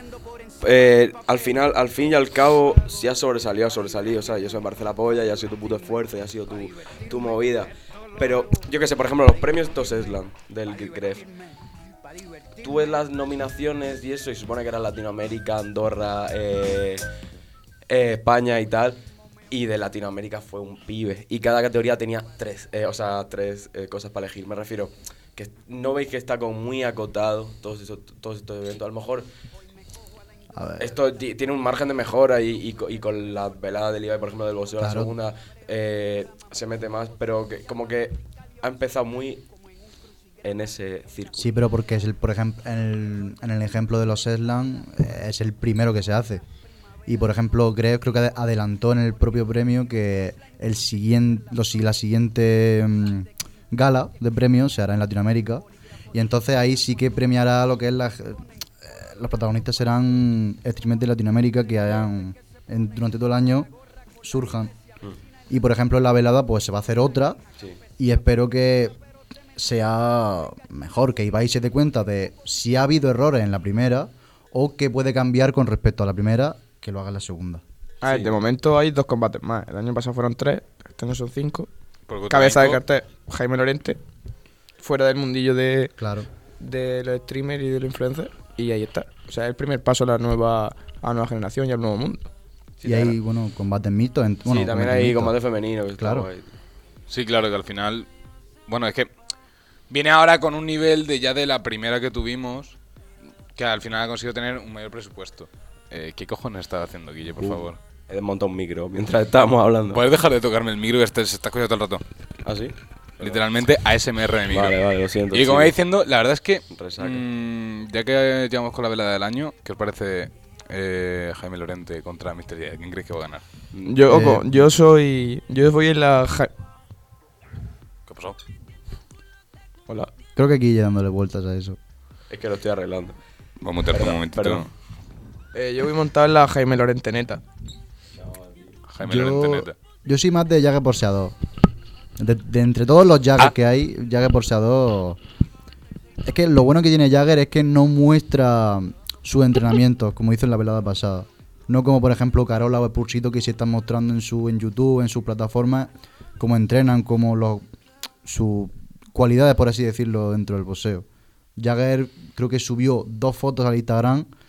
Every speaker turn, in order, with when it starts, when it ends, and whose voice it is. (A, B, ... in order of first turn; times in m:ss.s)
0:00.6-0:11.3 A
0:12.6-0:17.0 A
0:17.9-0:29.3 A
0:30.5-0:30.9 B
0:30.8-0:39.4 A
0:34.8-0:35.1 B
0:40.4-0:41.5 A
0:41.4-0:46.4 B
0:47.1-1:03.7 B
1:04.2-1:04.7 B
1:05.5-1:07.4 B
1:08.0-1:09.0 B
1:09.6-1:17.6 B
1:18.0-1:21.7 C
1:18.0-1:18.3 A
1:22.1-1:22.8 D
1:22.3-1:24.0 C
1:24.8-1:25.9 C
1:26.0-1:26.3 B
1:26.6-1:32.3 C
1:32.8-1:33.2 A
1:32.8-1:35.3 B
1:34.4-1:36.5 A
1:36.0-1:36.3 B
1:37.1-1:38.1 D
1:38.7-1:39.1 D
1:39.9-1:42.8 D
1:43.6-1:47.8 D
1:47.4-1:50.0 A
1:49.9-1:52.0 D
1:52.4-1:53.4 A
1:53.2-1:54.8 D
1:54.5-1:55.7 A
1:55.3-2:03.4 D
1:56.7-1:57.2 A
2:03.8-2:06.5 C
2:04.1-2:04.5 B
2:08.1-2:08.4 D
2:10.4-2:11.8 B
2:12.3-2:13.2 A
2:13.6-2:14.7 D
2:13.9-2:14.7 A
2:15.5-2:17.4 C
2:18.2-2:18.8 A
2:18.9-2:19.8 D
2:19.0-2:21.3 B
2:22.2-2:25.2 B
2:26.2-2:37.6 B
2:38.2-2:44.3 B